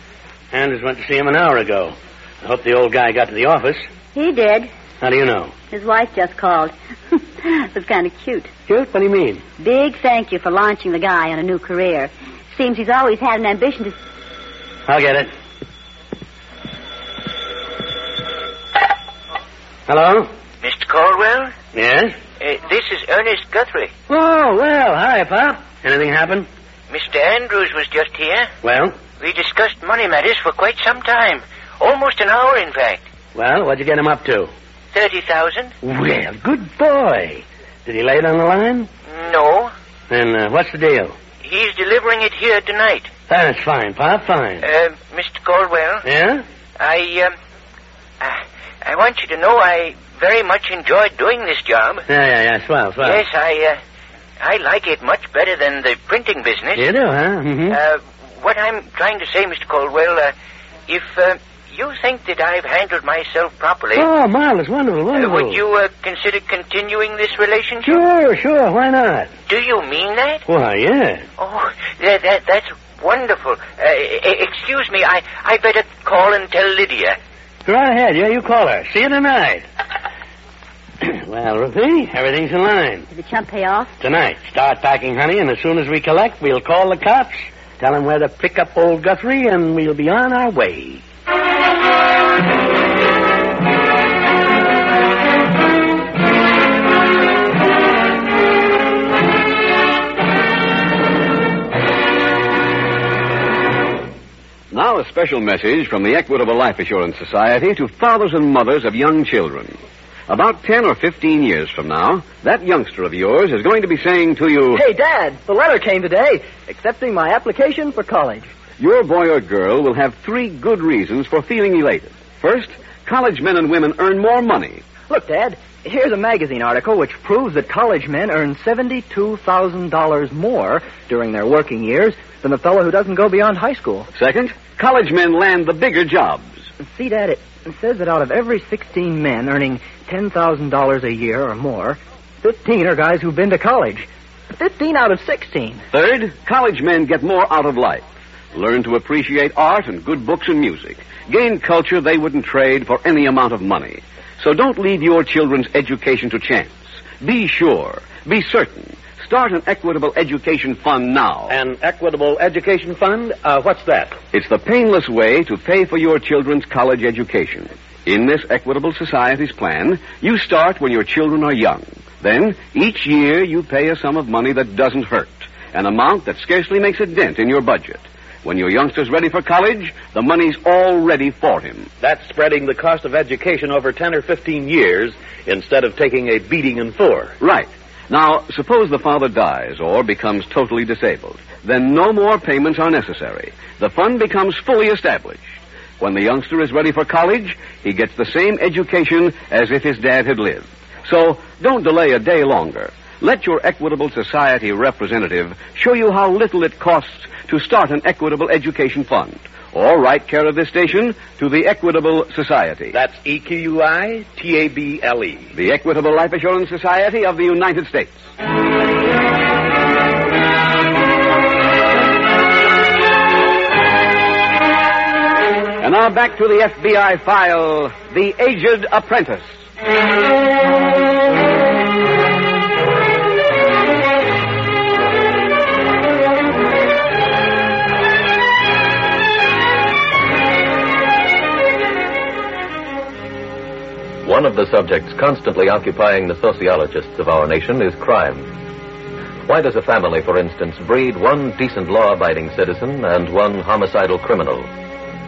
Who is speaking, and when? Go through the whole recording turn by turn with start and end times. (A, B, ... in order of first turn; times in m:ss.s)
0:00.5-0:03.9 A
0:04.1-0:04.7 B
0:05.0-0:05.5 A
0:05.7-0:08.5 B
0:08.7-0:09.4 A
0:09.6-0:13.9 B
0:14.9-0:15.3 A
0:19.9-0:20.3 A
0:20.6-0:21.5 C
0:21.7-0:22.1 A
0:22.4-0:23.9 C
0:24.1-0:26.5 A
0:26.9-0:28.5 C
0:28.6-0:29.0 A
0:29.2-0:33.0 C
0:33.3-0:34.5 A
0:34.9-0:35.7 C
0:35.8-0:38.9 A
0:39.1-0:39.7 C
0:40.1-0:41.1 A
0:41.4-0:43.1 C
0:43.3-0:44.6 A
0:44.6-0:46.1 C
0:46.0-0:46.4 A
0:46.8-0:47.3 C
0:48.2-0:52.0 C
0:52.1-0:53.2 A
0:53.0-0:53.8 C
0:54.4-0:56.9 C
0:56.8-0:57.8 A
0:57.7-1:00.3 C
1:00.9-1:04.1 C
1:03.9-1:05.6 A
1:05.1-1:08.0 C
1:07.8-1:09.3 A
1:09.5-1:10.4 C
1:10.5-1:11.2 A
1:11.4-1:17.2 C
1:17.6-1:19.6 A
1:21.0-1:23.0 A
1:23.1-1:23.9 B
1:24.0-1:31.0 A
1:44.7-1:54.8 D
1:54.7-1:58.5 E
1:58.8-2:04.8 D
2:05.1-2:14.1 E
2:14.1-2:16.5 D
2:16.8-2:25.8 E
2:25.9-2:41.5 D
2:41.5-2:44.2 F
2:44.3-3:01.9 D
3:02.0-3:07.4 F
3:07.4-3:33.0 D
3:32.9-3:35.5 F
3:35.5-3:38.2 D
3:45.8-3:49.5 D
4:04.2-4:08.5 G
4:09.5-4:14.7 G